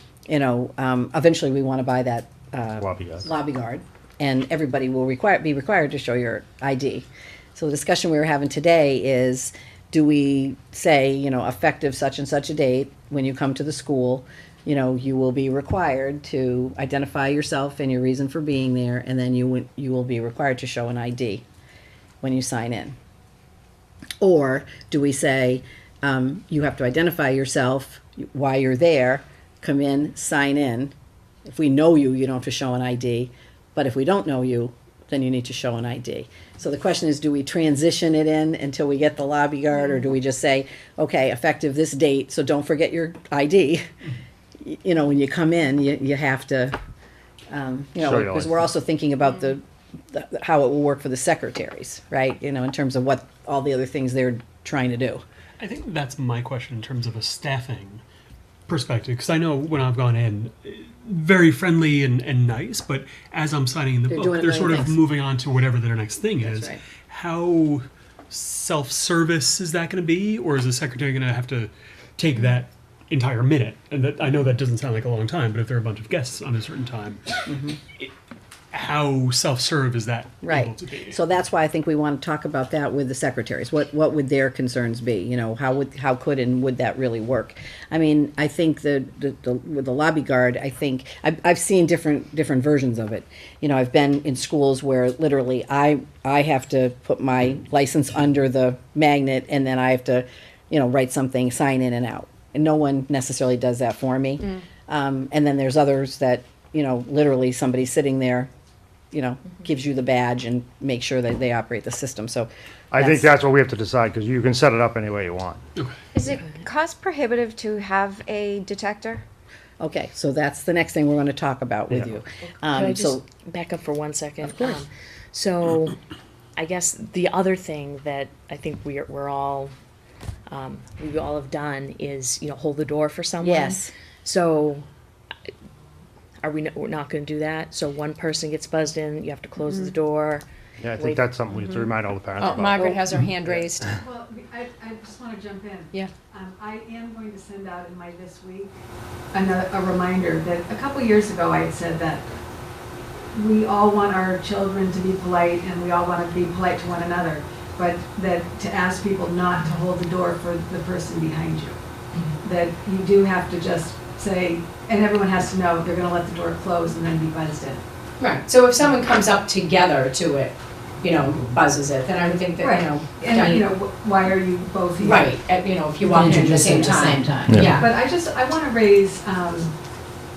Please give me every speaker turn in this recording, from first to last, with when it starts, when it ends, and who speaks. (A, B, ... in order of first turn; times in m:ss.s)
0:00.3-0:21.4 A
0:02.8-0:03.3 B
0:22.2-0:23.0 A
0:24.2-0:30.9 A
0:31.4-0:43.8 A
0:44.6-0:46.7 A
0:47.5-0:55.2 A
0:48.0-0:48.7 B
0:55.6-0:58.0 C
0:58.7-1:18.1 C
1:04.1-1:05.0 A
1:06.4-1:06.8 A
1:17.5-1:17.8 A
1:18.7-1:21.2 C
1:20.4-1:48.5 A
1:49.1-1:53.3 A
1:52.9-1:55.6 B
1:56.1-1:59.2 D
1:56.3-1:56.6 E
1:59.8-2:03.2 A
2:02.7-2:06.0 E
2:04.4-2:04.8 A
2:06.6-2:09.7 E
2:10.5-2:14.9 E
2:13.4-2:13.9 A
2:16.4-2:20.4 E
2:20.8-2:23.6 B
2:21.0-2:21.3 E
2:21.7-2:23.9 F
2:24.0-2:28.8 G
2:29.3-2:32.3 G
2:33.3-2:41.8 G
2:42.4-2:47.8 G
2:48.2-2:53.7 F
2:52.6-2:55.4 G
2:55.0-2:57.9 F
2:56.0-2:57.8 A
2:57.7-2:59.8 G